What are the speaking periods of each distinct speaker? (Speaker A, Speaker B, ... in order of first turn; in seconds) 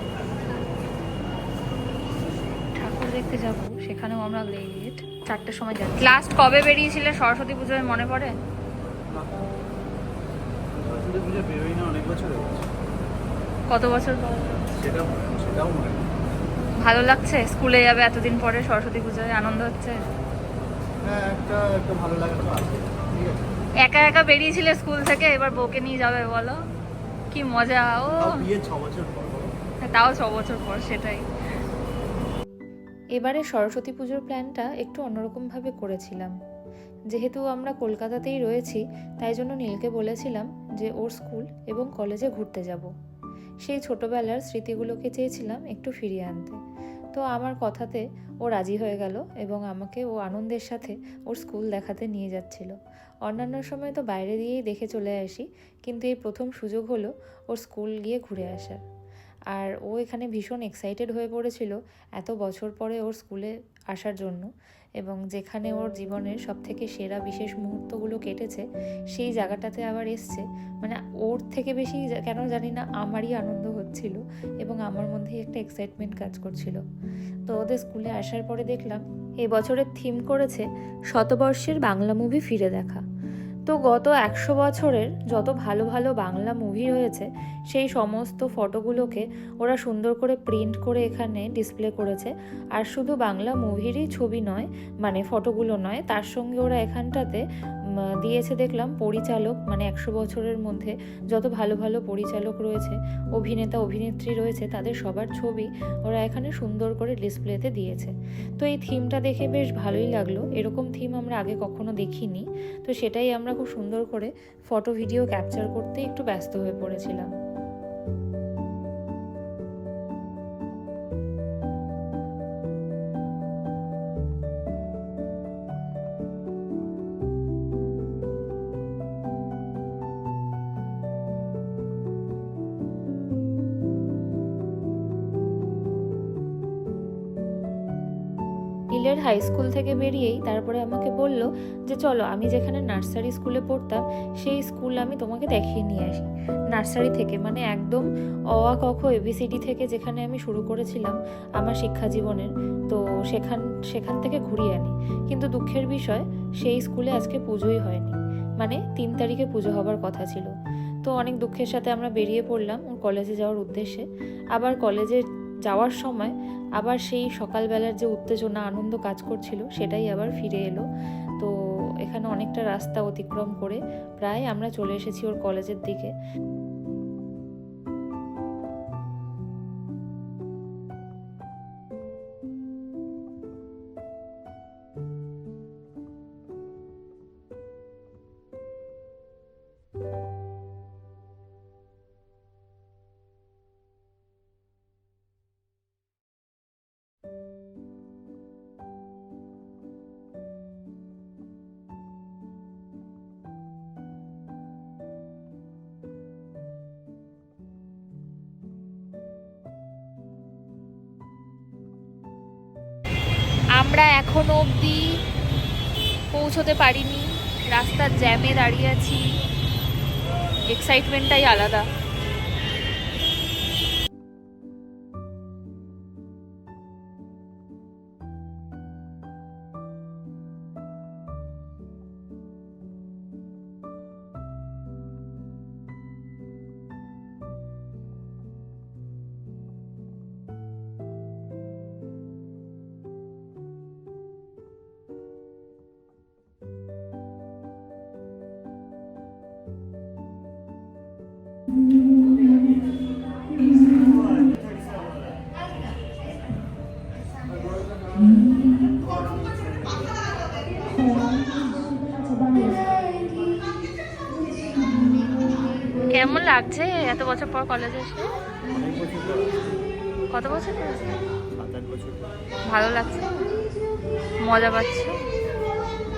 Speaker A: 2.8-5.9, 33.2-36.3, 37.1-42.9, 43.6-46.6, 47.1-52.8, 53.3-58.8, 59.5-64.5, 65.0-76.8, 77.5-83.0, 83.7-97.4, 98.2-117.3, 138.9-160.5, 161.1-170.8, 172.0-176.1
Speaker B: 5.3-8.4, 13.7-14.7, 16.8-20.0, 23.8-26.6, 27.3-28.4, 29.8-31.2, 213.8-215.2, 216.3-219.4, 220.7-221.9, 261.5-262.8, 266.1-268.3, 270.3-271.2, 272.7-273.4, 274.4-275.2
Speaker C: 10.7-12.7, 14.8-16.1, 21.0-23.5, 28.2-29.5, 268.7-269.8, 271.5-272.3